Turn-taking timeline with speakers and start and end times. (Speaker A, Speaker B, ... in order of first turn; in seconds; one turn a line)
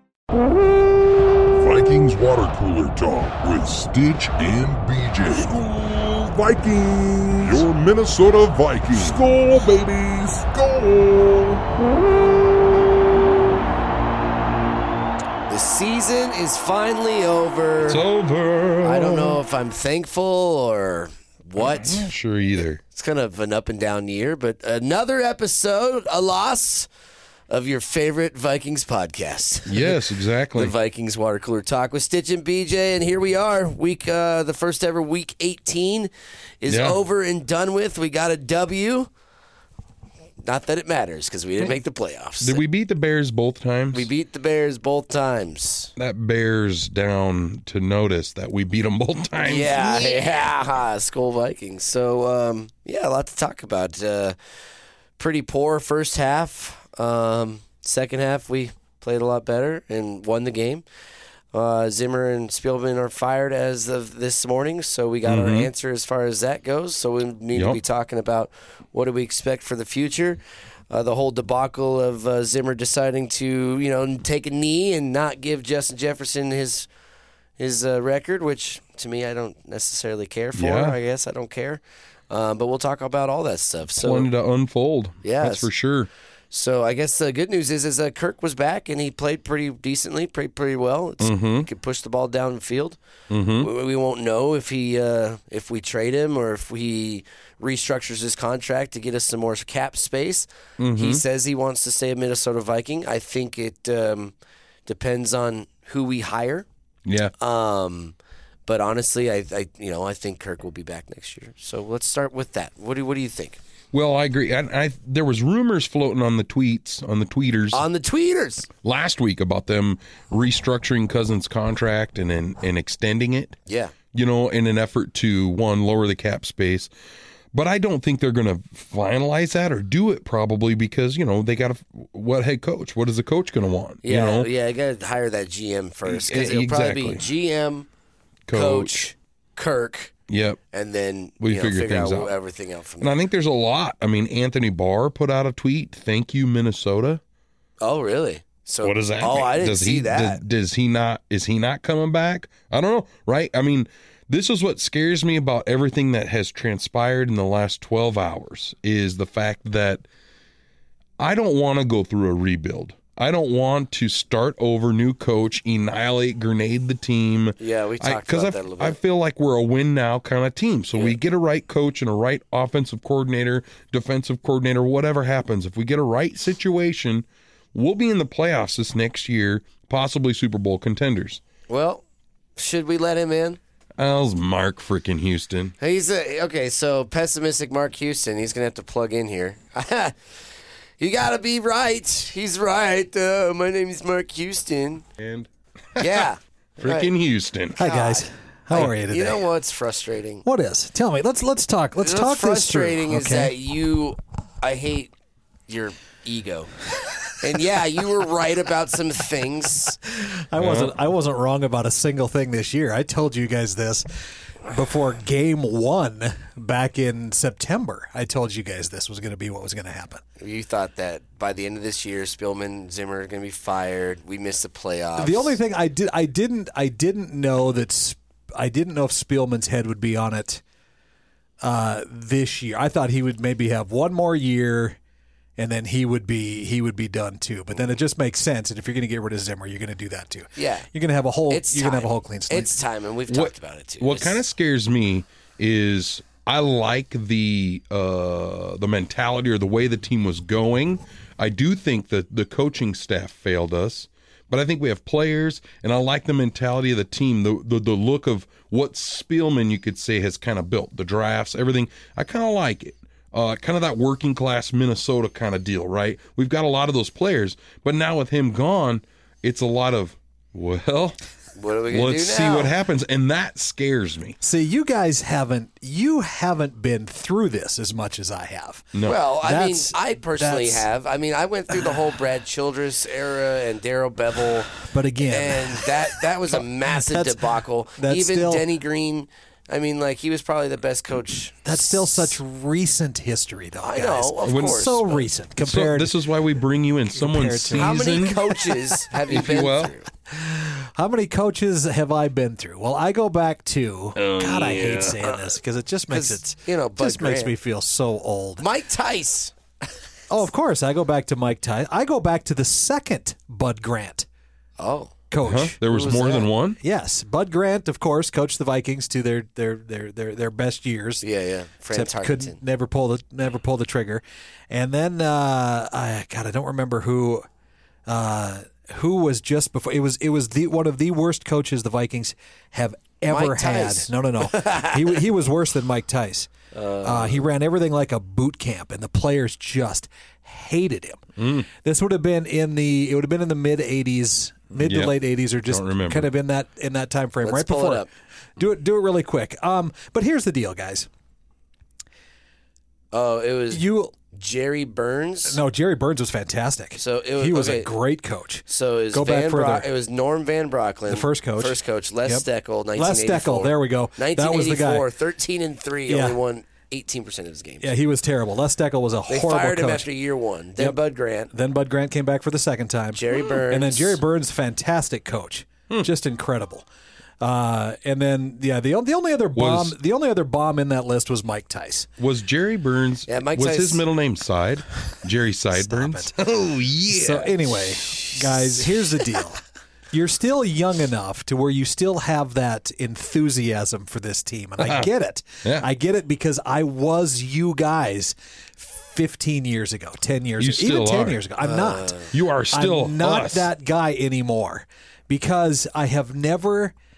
Speaker A: 1.5-11.6
Speaker B: 15.5-18.0
Speaker C: 17.9-19.4
Speaker B: 18.8-22.0
Speaker C: 21.6-22.8
Speaker B: 22.8-26.9
Speaker B: 27.5-36.1
Speaker C: 29.6-30.7
Speaker B: 36.6-39.1
Speaker C: 36.7-37.0
Speaker B: 40.4-42.6
Speaker C: 42.4-44.1
Speaker B: 43.9-45.9
Speaker C: 46.0-50.2
Speaker B: 49.4-54.4
Speaker B: 55.2-60.8
Speaker B: 61.5-76.9
Speaker C: 65.2-65.7
Speaker C: 67.5-67.8
Speaker B: 77.6-84.3
Speaker C: 80.5-81.0
Speaker C: 84.0-86.1
Speaker B: 85.2-85.7
Speaker B: 86.5-93.0
Speaker C: 91.2-91.7
Speaker C: 93.3-93.7
Speaker B: 93.6-104.3
Speaker C: 100.8-101.2
Speaker B: 104.8-106.7
Speaker C: 107.0-107.3
Speaker B: 107.4-108.1
Speaker B: 108.7-113.6
Speaker C: 113.9-117.8
Speaker B: 117.7-118.7
Speaker C: 118.8-123.5
Speaker B: 123.7-123.9
Speaker C: 124.1-126.9
Speaker C: 127.5-134.5
Speaker B: 134.0-137.9
Speaker C: 136.1-137.2
Speaker C: 138.5-139.1
Speaker B: 138.5-140.1
Speaker C: 140.3-140.6
Speaker B: 140.7-143.1
Speaker C: 141.4-142.3
Speaker C: 143.0-147.2
Speaker B: 147.8-150.4
Speaker C: 148.8-160.0
Speaker C: 161.2-181.4
Speaker B: 167.6-169.0
Speaker B: 181.7-182.0
Speaker B: 182.6-183.6
Speaker C: 184.0-185.7
Speaker B: 185.8-190.2
Speaker B: 191.0-195.0
Speaker C: 195.2-196.2
Speaker B: 196.0-197.1
Speaker C: 196.8-197.8
Speaker D: 197.8-199.4
Speaker B: 197.8-200.4
Speaker D: 200.4-203.5
Speaker B: 202.0-205.1
Speaker B: 205.7-206.7
Speaker B: 207.3-209.9
Speaker D: 210.0-214.1
Speaker C: 210.6-210.9
Speaker D: 214.7-220.2
Speaker B: 220.4-225.6
Speaker D: 225.2-230.6
Speaker D: 231.6-235.0
Speaker D: 235.6-242.7
Speaker B: 240.6-240.9
Speaker B: 241.5-244.4
Speaker C: 243.3-271.2
Speaker B: 271.6-272.7
Speaker C: 271.9-274.4
Speaker D: 274.4-280.8
Speaker B: 279.0-284.7
Speaker D: 284.8-288.7
Speaker B: 285.3-292.4
Speaker D: 291.6-296.2
Speaker B: 293.8-295.2
Speaker C: 294.4-294.9
Speaker C: 295.6-298.5
Speaker D: 297.1-298.1
Speaker B: 297.8-300.1
Speaker C: 299.3-299.9
Speaker D: 300.3-308.6
Speaker C: 304.1-305.2
Speaker B: 305.2-305.5
Speaker B: 306.1-307.5
Speaker B: 308.6-309.5
Speaker D: 310.3-314.3
Speaker B: 314.8-315.1
Speaker D: 315.3-315.8
Speaker C: 315.4-316.8
Speaker B: 315.8-316.5
Speaker D: 316.8-321.2
Speaker B: 321.2-322.6
Speaker D: 321.9-327.5
Speaker D: 328.1-336.5
Speaker B: 333.3-335.0
Speaker B: 336.7-337.5
Speaker D: 337.0-348.1
Speaker C: 341.4-341.7
Speaker C: 344.8-346.3
Speaker B: 347.4-348.1
Speaker D: 348.6-351.1
Speaker B: 353.1-355.6
Speaker D: 353.7-354.1
Speaker D: 355.5-359.9
Speaker B: 356.9-357.9
Speaker B: 358.7-367.9
Speaker D: 361.1-362.4
Speaker D: 362.9-365.1
Speaker D: 366.1-366.4
Speaker D: 367.8-370.1
Speaker B: 369.3-371.5
Speaker D: 371.5-376.9
Speaker B: 373.1-374.2
Speaker D: 377.4-382.1
Speaker C: 379.6-379.9
Speaker C: 382.2-387.6
Speaker B: 383.3-384.0
Speaker D: 385.7-386.4
Speaker D: 387.1-402.2
Speaker C: 394.8-395.1
Speaker C: 400.6-401.4
Speaker B: 401.6-402.3
Speaker C: 402.3-403.7
Speaker D: 402.7-406.9